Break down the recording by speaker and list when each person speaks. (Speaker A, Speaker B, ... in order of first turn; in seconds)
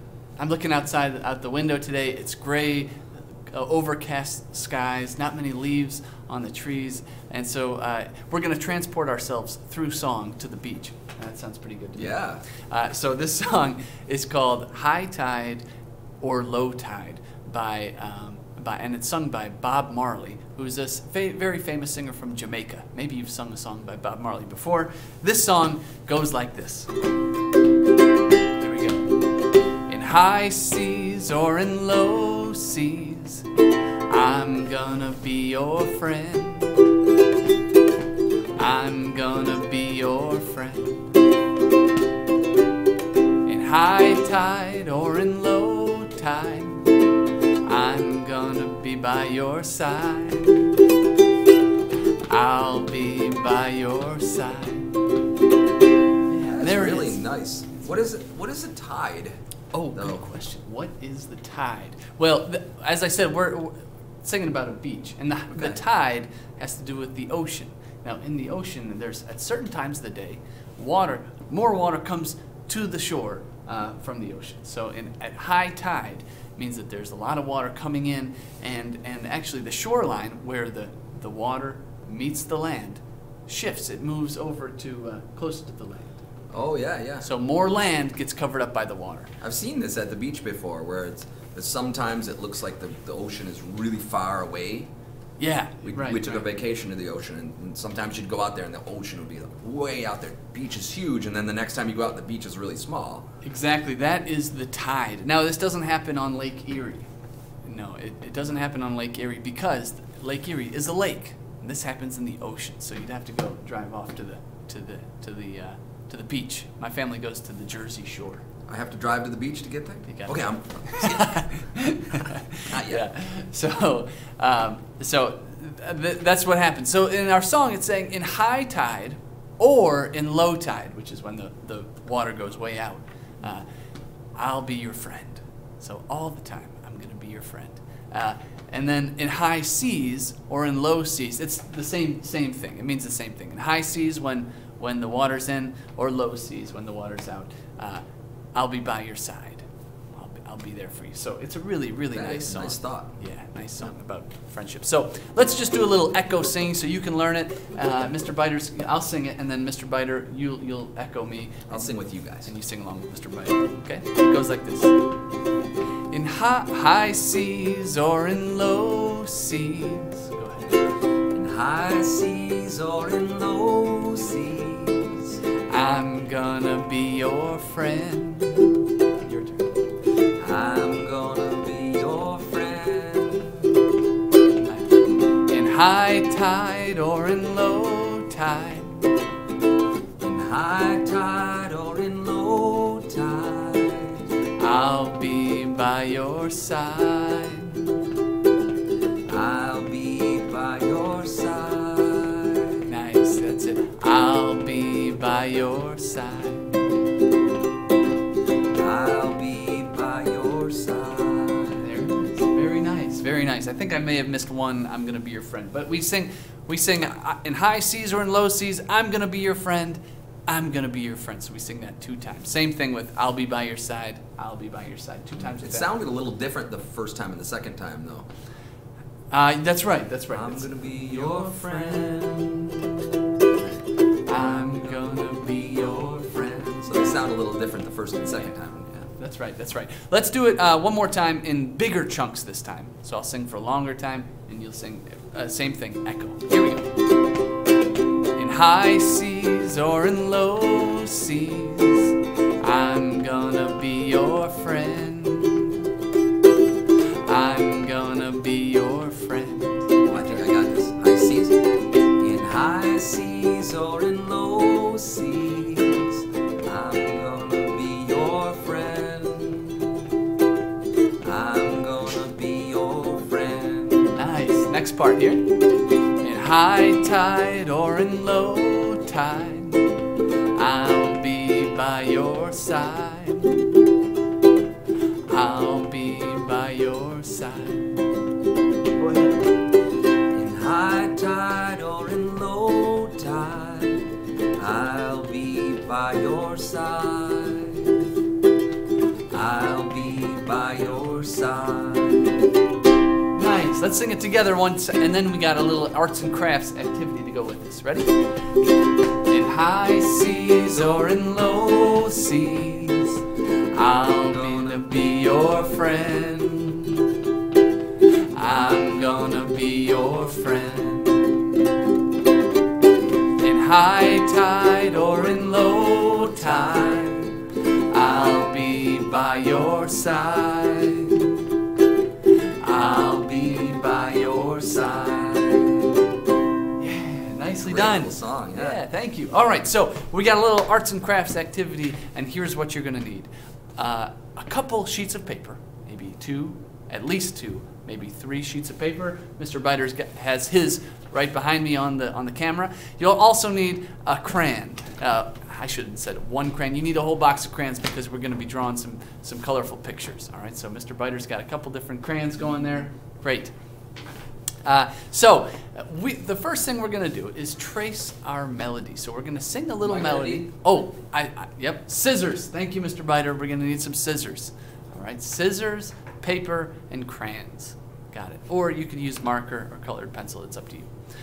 Speaker A: 0.4-15.6, 16.2-26.9, 28.6-29.1, 29.9-33.5, 34.1-36.9, 38.6-41.2, 43.5-46.9, 47.6-50.7, 52.3-54.9, 56.3-57.2, 59.7-86.2, 87.2-89.3, 95.4-96.5, 103.4-107.1, 107.6-118.5, 120.1-133.7, 134.4-148.0, 148.6-165.0, 166.1-170.8, 175.7-179.7, 184.6-184.9, 185.5-189.1, 194.6-198.0, 202.9-206.8, 211.8-225.9, 229.3-232.8, 234.3-237.1, 239.2-246.9, 248.3-255.8, 257.2-260.4, 274.1-275.6, 276.2-279.9, 280.5-283.7, 285.3-288.0, 289.0-289.4, 303.3-308.2, 309.3-317.1, 318.3-321.4, 323.4-331.3, 332.6-335.9, 336.8-363.5, 364.6-380.9
Speaker B: 11.9-12.4, 56.5-59.4, 60.0-60.2, 86.5-87.3, 89.4-94.9, 95.8-103.3, 118.7-121.4, 122.7-123.0, 152.1-153.1, 161.7-162.5, 171.3-175.4, 180.4-183.7, 190.2-194.3, 199.3-202.8, 208.7-211.8, 225.5-228.3, 230.3-232.6, 234.4-234.8, 236.8-239.1, 260.1-261.6, 262.2-270.0, 271.2-274.2, 290.3-298.0, 299.3-302.4, 337.6-338.8, 369.8-370.5